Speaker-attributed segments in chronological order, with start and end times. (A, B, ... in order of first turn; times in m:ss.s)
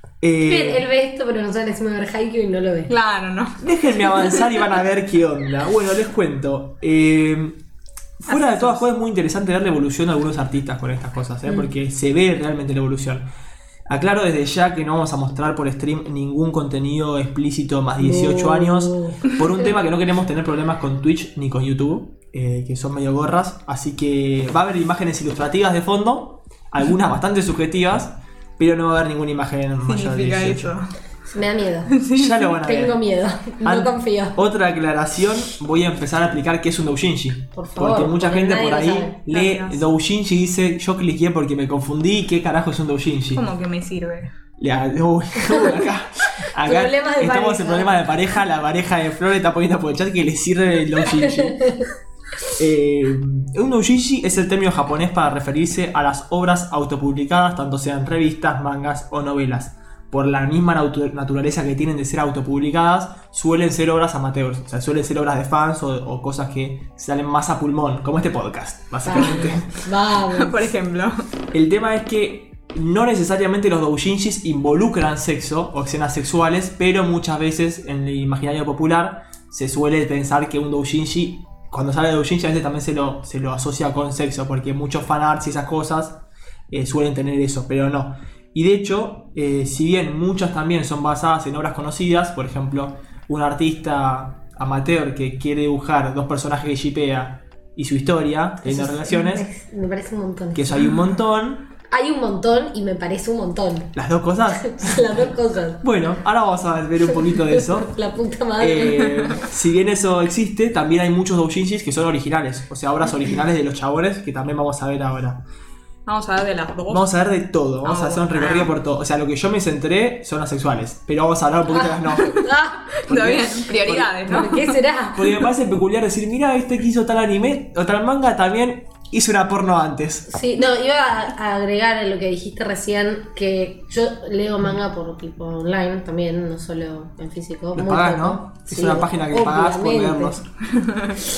0:00.2-0:00.8 A
0:00.4-0:02.9 B
0:02.9-0:04.5 C
0:03.6-0:07.6 A
0:08.2-0:13.3 A
0:08.3-0:08.8 C
0:13.9-0:30.8 A
0:18.0-0:19.4 B
0:29.8-0:30.9 C
0:31.3-0:31.9 B
0:31.9-0:32.5 C
0:32.1-0:33.0 A
0:32.5-0:34.4 B
0:33.6-0:43.5 A
0:37.6-0:39.2 B
0:39.2-0:39.8 C
0:43.4-0:44.3 C
0:44.6-0:51.8 A
0:46.6-0:48.0 B
0:51.2-0:51.9 B
0:52.6-1:09.7 A
1:09.1-1:10.7 B
1:10.3-1:11.2 C
1:11.5-1:39.4 A
1:38.6-1:40.9 B
1:40.5-1:41.7 A
1:41.9-1:43.9 B
1:43.9-1:45.3 A
1:44.6-1:45.8 B
1:45.8-1:47.9 A
1:47.2-1:49.3 B
1:48.6-1:55.4 A
1:56.1-1:57.1 C
1:56.9-2:02.4 A
1:57.8-1:58.7 C
2:02.2-2:03.0 B
2:03.1-2:04.1 A
2:03.1-2:04.8 C
2:04.2-2:05.4 B
2:05.2-2:10.3 A
2:10.3-2:20.4 B
2:17.7-2:20.5 A
2:20.8-2:21.2 C